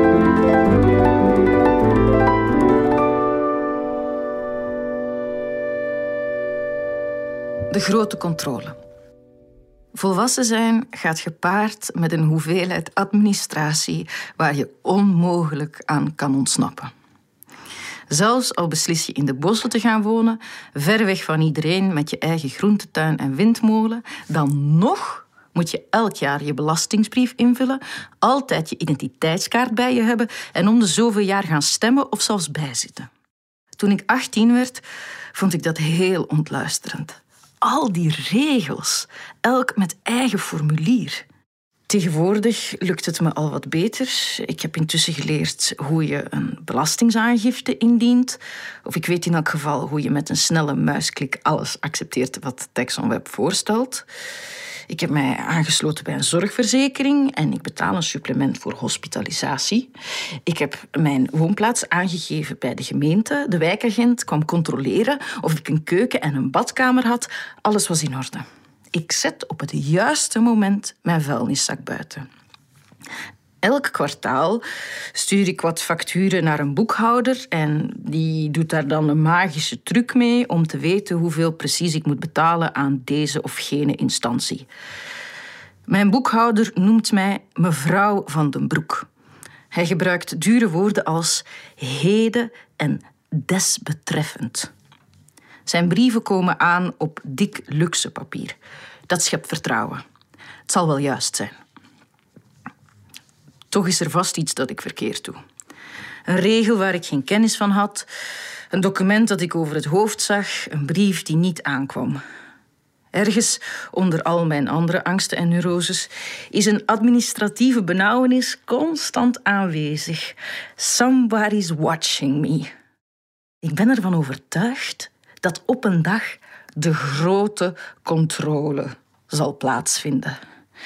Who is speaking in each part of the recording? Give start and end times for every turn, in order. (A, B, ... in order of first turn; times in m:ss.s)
0:07.7-0:08.8 A
0:09.9-0:16.9 A
0:18.1-0:33.1 A
0:33.8-0:41.2 A
0:41.9-0:54.0 A
0:54.9-0:59.9 A
1:00.4-1:12.2 A
1:13.6-1:14.6 A
1:15.1-1:24.7 A
1:25.9-1:29.1 A
1:29.7-1:34.7 A
1:35.6-1:40.0 A
1:40.7-1:41.5 A
1:43.7-1:45.4 A
1:46.2-1:48.1 A
1:48.7-1:52.2 A
1:53.1-2:02.7 A
2:03.6-2:10.4 A